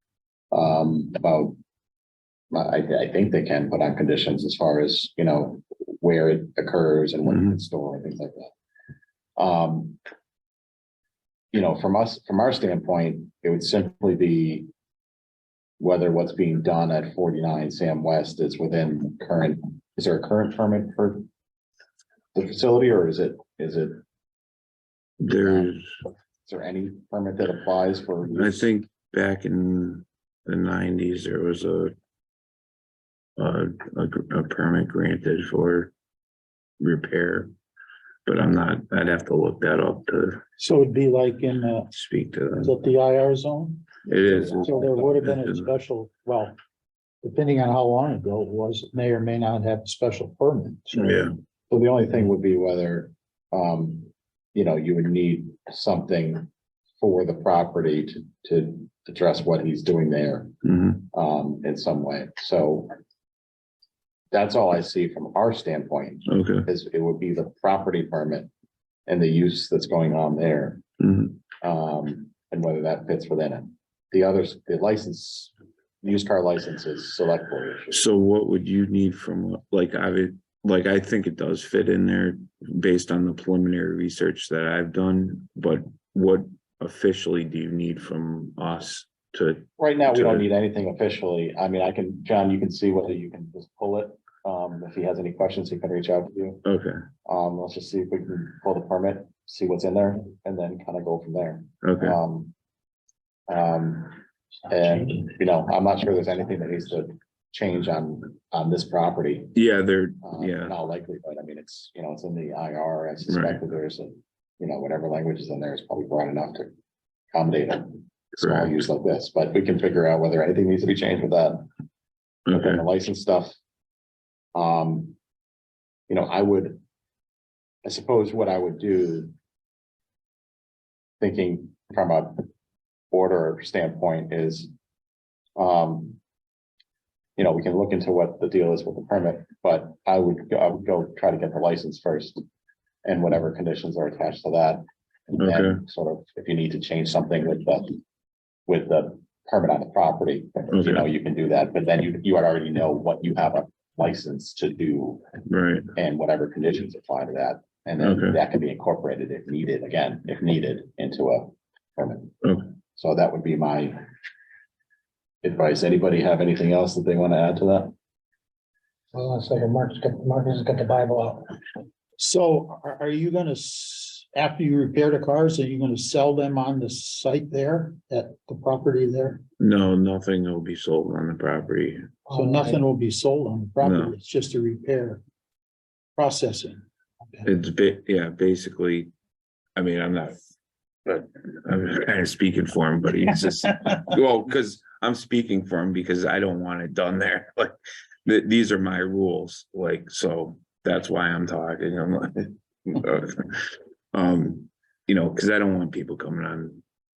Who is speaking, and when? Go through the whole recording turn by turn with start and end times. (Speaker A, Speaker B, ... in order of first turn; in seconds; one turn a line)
Speaker A: 0.5-1.6
Speaker A: 2.5-8.5
Speaker A: 9.4-10.0
Speaker A: 11.5-14.7
Speaker A: 15.8-21.3
Speaker A: 22.4-24.0
Speaker B: 25.2-25.9
Speaker A: 25.4-25.8
Speaker A: 26.5-28.7
Speaker B: 28.3-31.9
Speaker B: 33.4-35.9
Speaker B: 36.8-37.5
Speaker B: 38.3-40.4
Speaker C: 40.6-41.9
Speaker B: 41.9-42.8
Speaker C: 42.6-44.0
Speaker A: 44.0-45.0
Speaker B: 44.1-45.7
Speaker C: 44.5-46.6
Speaker C: 47.2-51.3
Speaker B: 50.9-51.3
Speaker A: 51.7-56.5
Speaker A: 57.0-60.5
Speaker B: 60.6-61.1
Speaker A: 61.1-62.9
Speaker A: 64.3-68.5
Speaker B: 66.3-66.7
Speaker A: 69.1-70.8
Speaker B: 71.0-71.4
Speaker A: 71.6-78.1
Speaker B: 77.9-90.5
Speaker A: 89.8-96.7
Speaker B: 96.7-97.0
Speaker A: 97.2-102.5
Speaker B: 101.8-102.2
Speaker A: 103.5-109.5
Speaker B: 109.5-110.8
Speaker A: 110.2-116.7
Speaker B: 113.3-113.6
Speaker A: 117.3-121.7
Speaker B: 118.4-118.8
Speaker B: 122.5-122.8
Speaker A: 122.5-123.6
Speaker A: 124.5-125.2
Speaker A: 126.1-126.8
Speaker A: 127.8-129.3
Speaker A: 131.2-132.4
Speaker A: 133.1-134.7
Speaker A: 135.6-136.2
Speaker A: 137.4-142.4
Speaker A: 143.1-148.0
Speaker B: 145.4-145.8
Speaker A: 148.7-155.3
Speaker B: 150.7-151.1
Speaker B: 155.5-155.9
Speaker A: 156.0-162.3
Speaker B: 158.0-158.4
Speaker A: 162.9-164.0
Speaker A: 165.4-167.9
Speaker D: 169.1-171.5
Speaker C: 172.2-179.4
Speaker B: 179.6-182.1
Speaker D: 182.3-182.8
Speaker C: 182.3-185.2
Speaker B: 183.8-184.2
Speaker C: 186.2-187.5
Speaker B: 187.4-189.1
Speaker B: 189.8-190.4
Speaker B: 191.1-197.7
Speaker B: 198.3-206.8